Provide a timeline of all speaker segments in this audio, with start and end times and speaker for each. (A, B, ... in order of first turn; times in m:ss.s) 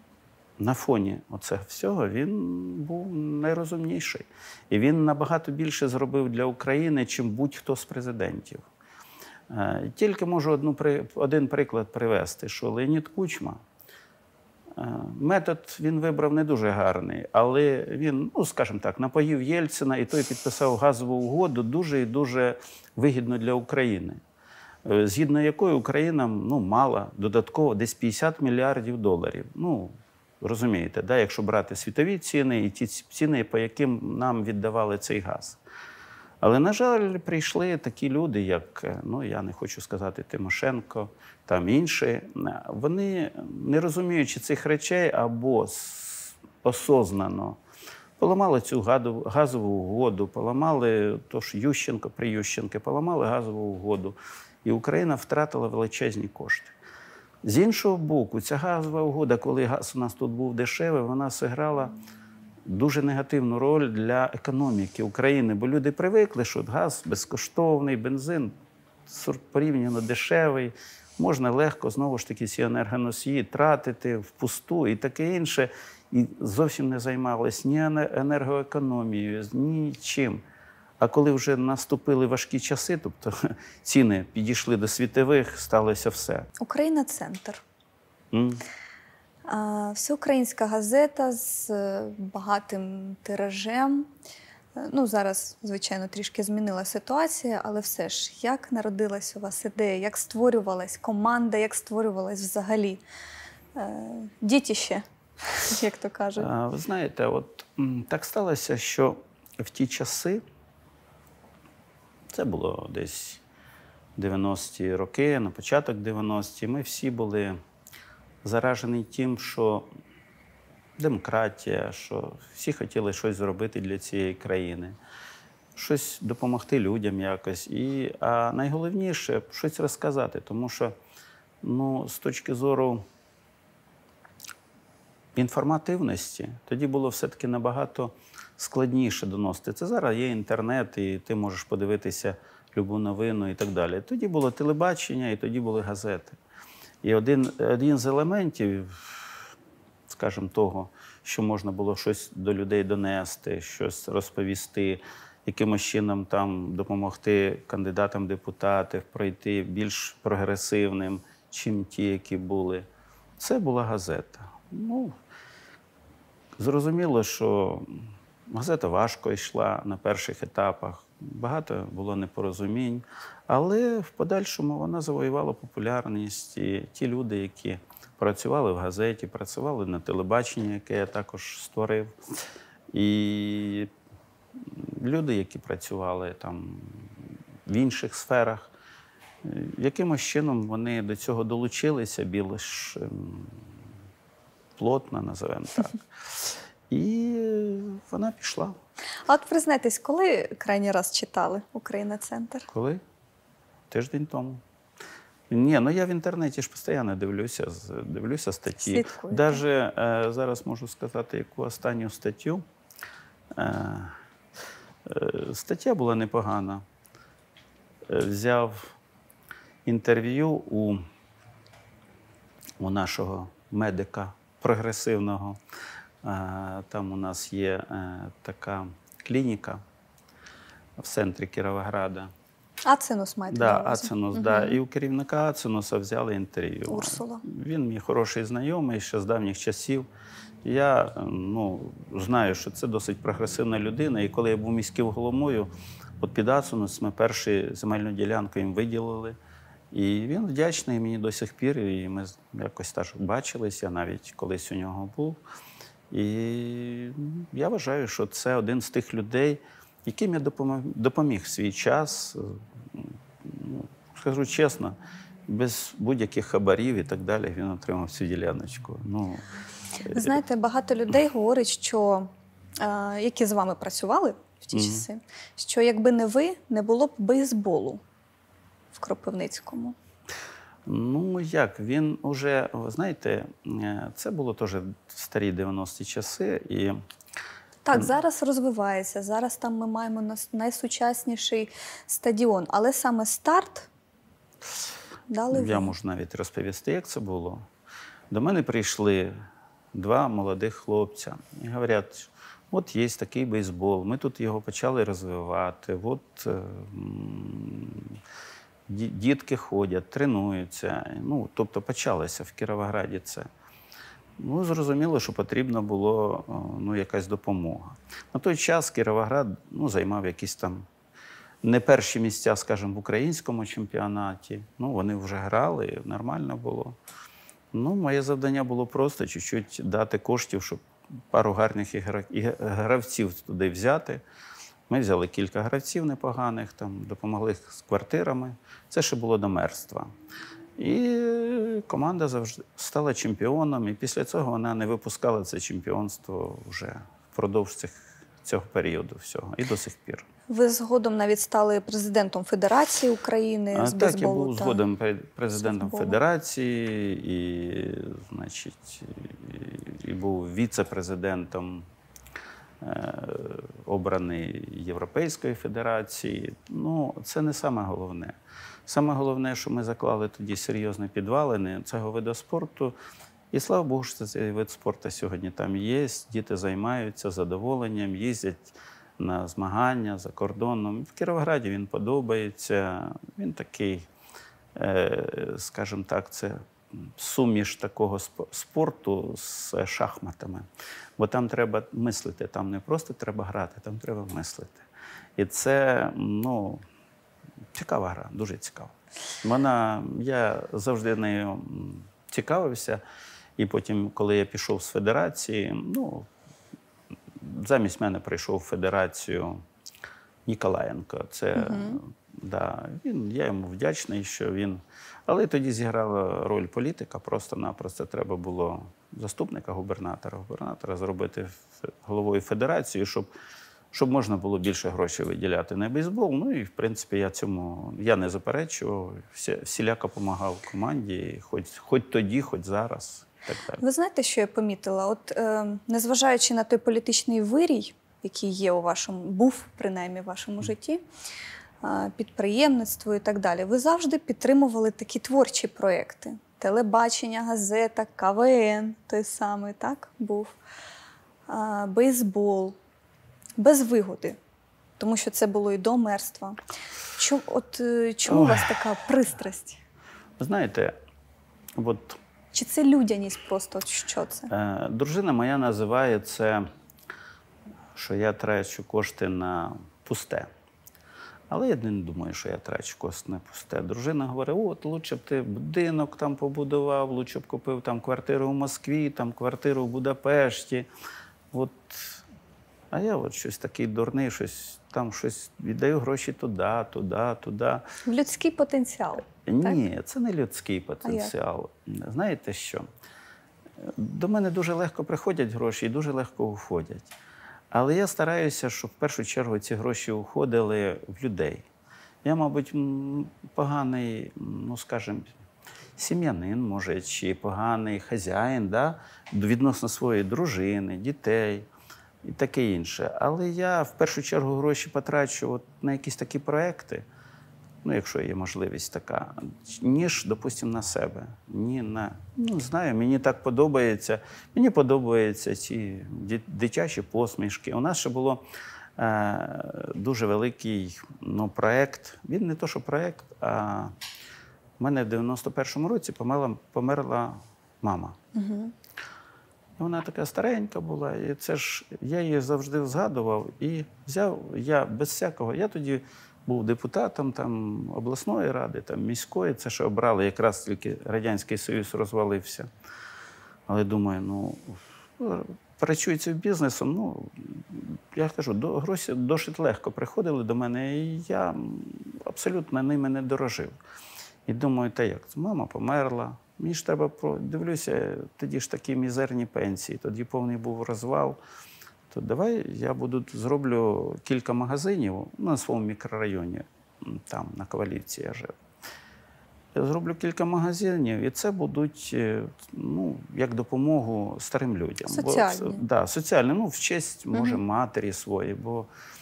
0:00.6-0:08.6 A
0:09.5-0:13.6 A
0:14.7-0:24.2 A
0:24.8-0:35.6 A
0:36.4-0:47.6 A
0:48.2-0:56.7 A
0:57.4-1:02.0 A
1:02.6-1:08.5 A
1:09.1-1:20.4 A
1:21.0-1:26.5 A
1:26.6-1:27.6 B
1:28.3-1:28.6 A
1:29.5-1:34.1 B
1:34.7-1:43.0 B
1:43.8-1:46.5 B
1:46.4-1:50.4 A
1:52.3-1:53.4 A
1:54.2-1:57.6 A
1:58.4-1:59.9 A
2:01.0-2:05.0 A
2:05.7-2:10.9 A
2:11.6-2:13.0 A
2:15.3-2:26.4 A
2:27.0-2:29.4 A
2:30.1-2:42.8 A
2:43.4-2:45.1 A
2:46.6-3:02.1 A
3:02.9-3:03.9 A
3:04.6-3:08.7 A
3:09.4-3:13.7 A
3:14.8-3:18.8 A
3:19.3-3:22.7 B
3:22.7-3:23.0 A
3:23.9-3:24.6 A
3:25.5-3:32.6 A
3:28.8-3:29.6 B
3:33.5-3:34.2 A
3:35.0-3:36.8 A
3:38.1-3:38.9 A
3:39.8-3:41.0 A
3:42.8-3:45.6 A
3:46.2-3:49.8 A
3:51.0-3:52.3 A
3:52.8-3:54.8 B
3:53.5-4:00.1 A
3:56.9-3:57.4 B
4:00.6-4:09.4 A
4:09.9-4:15.4 A
4:16.1-4:25.0 A
4:25.5-4:29.4 A
4:30.1-4:30.4 A
4:30.1-4:38.0 B
4:34.7-4:35.0 A
4:38.9-4:40.0 B
4:40.8-4:47.0 A
4:47.8-4:53.9 B
4:55.3-4:55.9 B
4:55.5-4:57.6 A
4:58.3-4:59.3 A
4:59.9-5:08.2 A
5:08.9-5:13.5 A
5:14.4-5:20.8 A
5:21.6-5:27.0 A
5:27.7-5:34.2 A
5:34.9-5:40.1 A
5:40.8-5:50.2 A
5:50.5-5:54.8 B
5:53.7-6:01.9 A
5:55.5-5:56.2 B
6:02.8-6:12.9 A
6:13.5-6:24.1 A
6:24.7-6:30.6 A
6:31.2-6:34.8 A
6:35.4-6:36.8 A
6:37.7-6:43.0 A
6:43.6-6:46.3 A
6:47.4-6:49.6 A
6:50.4-7:03.3 A
6:51.6-6:52.0 B
7:03.9-7:13.8 A
7:13.8-7:21.0 B
7:21.8-7:30.5 B
7:31.5-7:32.8 B
7:33.6-7:34.4 B
7:35.0-7:36.6 B
7:37.2-7:39.8 B
7:38.2-7:39.0 A
7:40.4-7:40.9 A
7:41.7-7:42.2 A
7:42.5-7:44.5 B
7:44.5-7:46.6 A
7:47.9-7:50.5 A
7:51.5-8:00.9 A
8:01.5-8:02.2 A
8:02.9-8:07.8 A
8:08.0-8:09.8 B
8:09.4-8:12.8 A
8:11.0-8:11.3 B
8:13.8-8:17.1 A
8:17.7-8:21.6 A
8:22.2-8:25.3 A
8:26.0-8:31.7 A
8:32.2-8:37.0 A
8:37.8-8:48.4 A
8:49.0-8:53.9 A
8:54.8-8:58.2 A
8:58.3-8:58.7 B
8:59.8-9:12.7 A
9:13.7-9:23.8 A
9:24.5-9:31.4 A
9:32.1-9:38.5 A
9:39.7-9:48.9 A
9:45.1-9:45.8 B
9:47.3-9:47.6 B